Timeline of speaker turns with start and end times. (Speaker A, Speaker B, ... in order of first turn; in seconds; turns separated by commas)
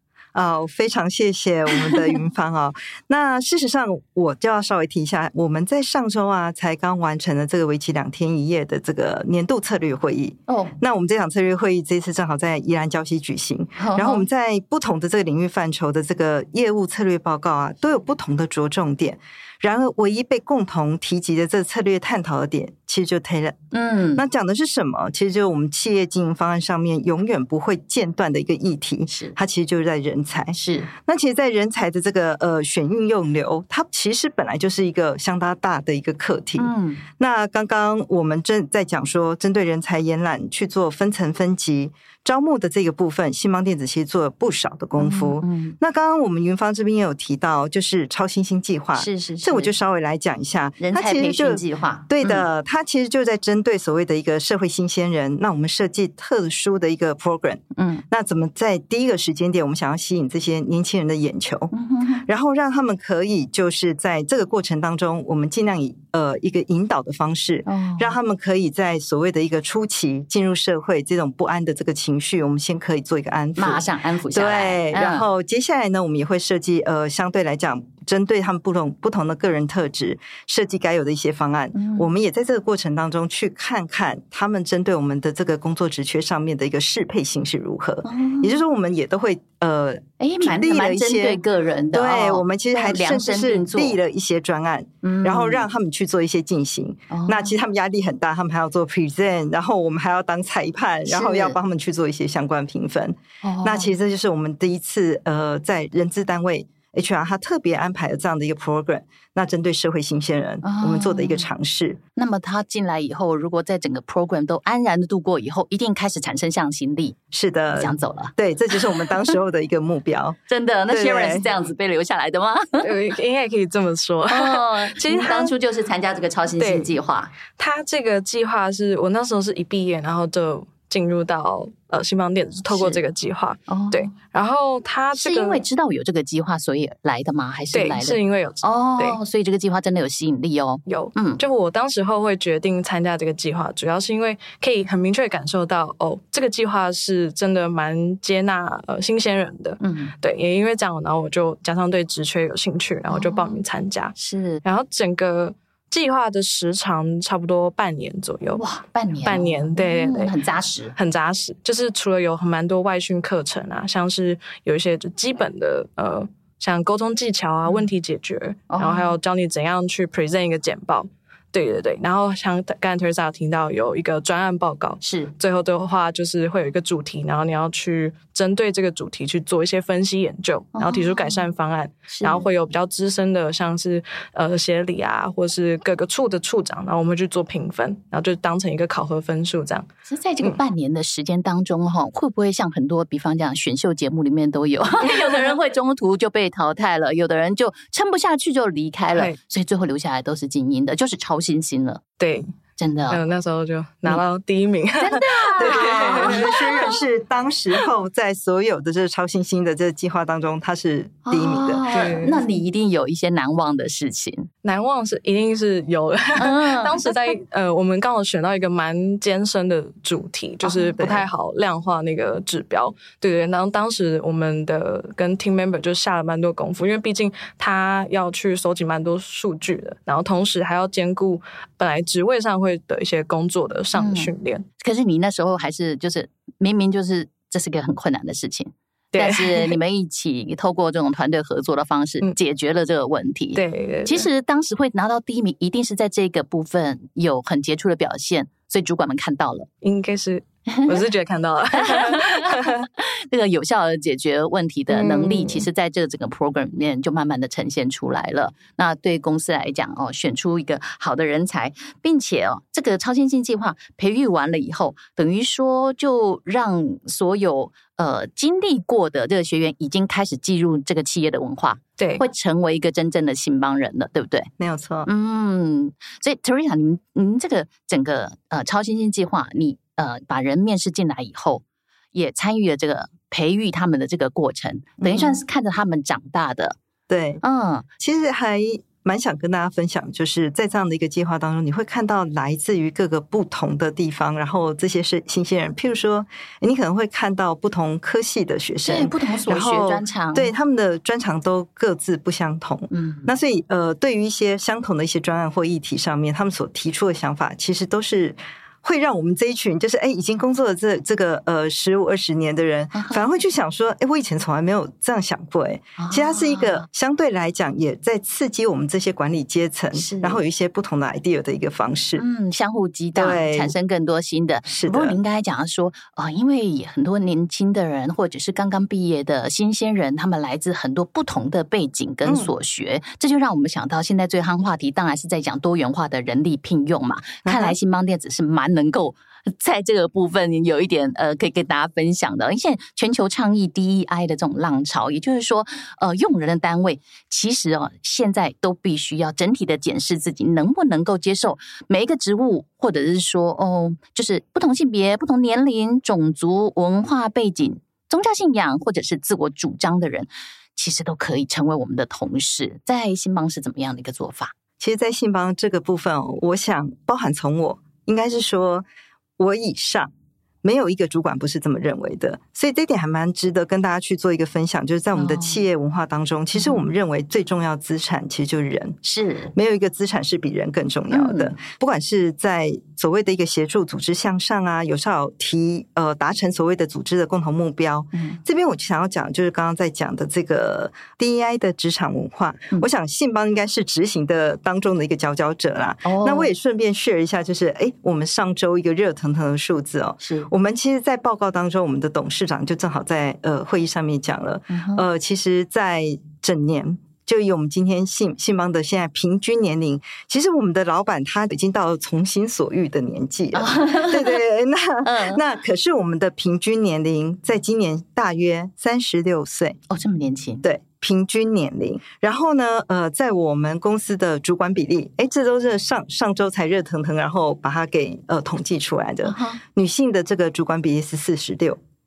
Speaker A: 0.3-23.6, Speaker B: 10.5-10.7, Speaker B: 13.8-14.2, Speaker B: 23.7-24.2, Speaker A: 24.1-61.7, Speaker B: 29.1-29.3, Speaker B: 30.5-30.9, Speaker B: 36.6-37.0, Speaker B: 45.0-45.8, Speaker B: 48.9-49.7, Speaker B: 50.8-52.5, Speaker B: 57.7-58.0, Speaker B: 61.7-62.3, Speaker A: 62.2-91.4, Speaker B: 67.7-68.1, Speaker B: 73.6-75.2, Speaker B: 81.7-82.1, Speaker B: 88.0-88.6, Speaker B: 90.2-94.0, Speaker A: 91.9-112.0, Speaker B: 95.0-95.6, Speaker B: 97.1-97.5, Speaker B: 101.1-101.5, Speaker B: 103.4-103.9, Speaker B: 110.6-111.5, Speaker B: 112.2-117.2, Speaker A: 117.3-120.4, Speaker B: 117.7-118.3, Speaker B: 120.5-122.9, Speaker A: 120.9-121.5, Speaker C: 122.8-125.5, Speaker B: 124.3-127.3, Speaker C: 126.6-127.0, Speaker C: 127.5-135.6, Speaker B: 132.7-133.0, Speaker B: 133.7-134.1, Speaker B: 135.1-141.4, Speaker C: 137.7-139.2, Speaker C: 140.9-158.6, Speaker B: 149.8-150.1, Speaker B: 153.1-153.6, Speaker B: 154.2-154.6, Speaker B: 158.6-160.9, Speaker C: 159.2-160.3, Speaker C: 160.9-189.9, Speaker B: 168.7-169.1, Speaker B: 175.0-175.3, Speaker B: 180.7-181.4, Speaker B: 182.1-182.4, Speaker B: 190.1-202.0, Speaker C: 202.2-202.5, Speaker B: 202.8-203.2, Speaker C: 203.1-206.6, Speaker B: 205.0-206.9, Speaker A: 205.6-211.8, Speaker B: 211.3-214.5, Speaker C: 211.9-212.4, Speaker C: 214.6-234.6, Speaker B: 216.3-217.1, Speaker B: 220.6-220.9, Speaker A: 221.0-221.2, Speaker B: 233.9-249.7, Speaker C: 239.1-239.8, Speaker C: 243.5-244.3, Speaker C: 249.8-252.9, Speaker B: 250.7-250.9, Speaker B: 251.8-274.5, Speaker C: 254.9-255.7, Speaker C: 272.0-272.2, Speaker A: 274.6-275.1, Speaker B: 275.0-281.6, Speaker B: 282.1-286.8, Speaker A: 285.0-285.4, Speaker A: 287.1-287.4, Speaker B: 287.4-287.9, Speaker A: 288.0-322.2, Speaker B: 298.8-300.5, Speaker B: 302.9-303.3, Speaker B: 312.9-313.3, Speaker B: 316.0-316.9, Speaker B: 319.9-320.4, Speaker B: 322.2-364.5, Speaker A: 323.1-323.7, Speaker A: 324.6-325.2, Speaker A: 332.2-332.5, Speaker A: 337.4-337.8, Speaker A: 364.8-368.9, Speaker A: 369.4-370.1, Speaker A: 370.6-379.0, Speaker B: 375.1-375.6, Speaker B: 376.5-376.8, Speaker B: 379.0-379.5, Speaker A: 379.5-419.8, Speaker B: 381.1-381.6, Speaker B: 388.1-388.4, Speaker B: 396.0-396.5, Speaker B: 400.2-400.5, Speaker B: 404.7-405.0, Speaker B: 413.5-414.4, Speaker B: 415.0-415.4, Speaker B: 419.9-420.6, Speaker A: 420.6-431.8, Speaker B: 429.2-429.6